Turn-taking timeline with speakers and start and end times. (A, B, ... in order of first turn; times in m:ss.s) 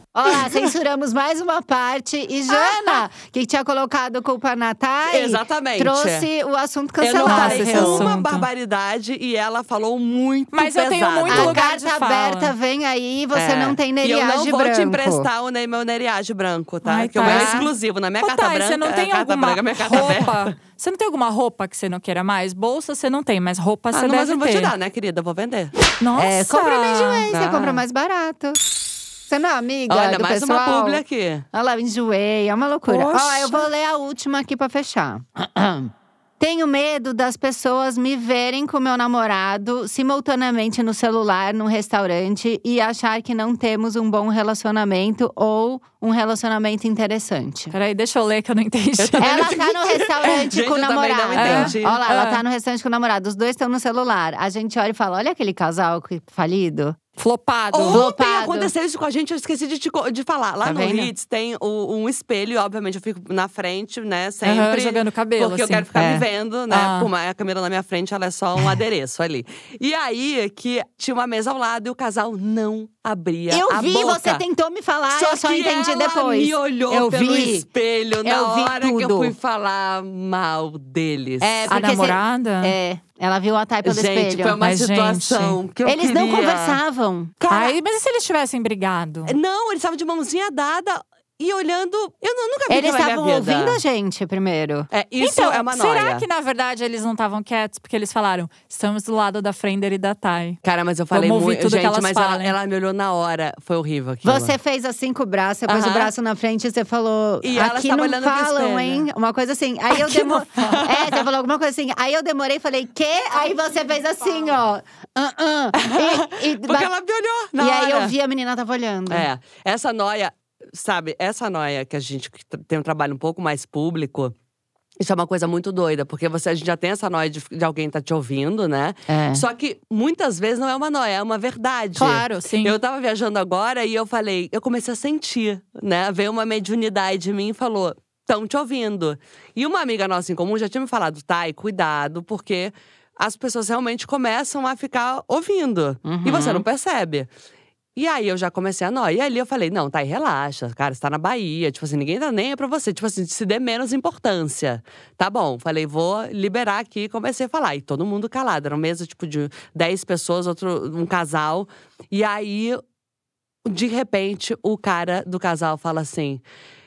0:00.1-0:08.1 A
0:02.5-0:02.9 B
0:05.1-0:06.3 C
0:07.0-0:11.6 C
0:07.2-0:08.5 B
0:10.5-0:12.5 B
0:11.3-0:15.3 A
0:13.3-0:20.5 C
0:16.8-0:17.7 B
0:17.2-0:17.7 A
0:18.2-0:24.7 B
0:23.9-0:25.7 C
0:26.0-0:27.3 B
0:26.2-0:28.6 A
0:27.3-0:27.8 C
0:29.3-0:31.0 A
0:29.9-0:31.4 C
0:31.5-0:47.7 A
0:32.9-0:33.5 C
0:47.7-0:49.4 B
0:49.0-0:52.0 C
0:49.2-0:57.0 A
0:51.4-0:52.4 B
0:57.2-0:58.0 B
0:57.7-1:14.4 C
0:57.9-0:58.7 A
1:00.6-1:01.1 A
1:04.4-1:05.8 B
1:05.9-1:06.2 A
1:06.7-1:07.1 B
1:13.5-1:17.6 A
1:15.1-1:21.7 C
1:18.2-1:19.3 A
1:21.4-1:24.6 A
1:21.7-1:22.7 B
1:23.8-1:26.8 C
1:24.6-1:25.6 B
1:25.8-1:27.4 A
1:27.4-1:27.8 C
1:27.5-1:29.4 B
1:29.3-1:33.8 C
1:32.7-1:34.9 A
1:34.9-1:36.2 C
1:35.2-1:40.6 B
1:40.6-1:44.6 C
1:41.1-1:42.5 B
1:44.2-1:56.9 A
1:45.7-1:46.1 C
1:47.4-1:49.0 C
1:50.1-1:51.2 C
1:55.8-1:58.1 C
1:57.6-1:59.3 A
1:59.1-2:04.3 C
2:05.0-2:27.3 C
2:09.1-2:09.4 A
2:12.0-2:12.8 B
2:26.0-2:26.6 A
2:28.0-2:42.8 C
2:43.6-2:46.4 C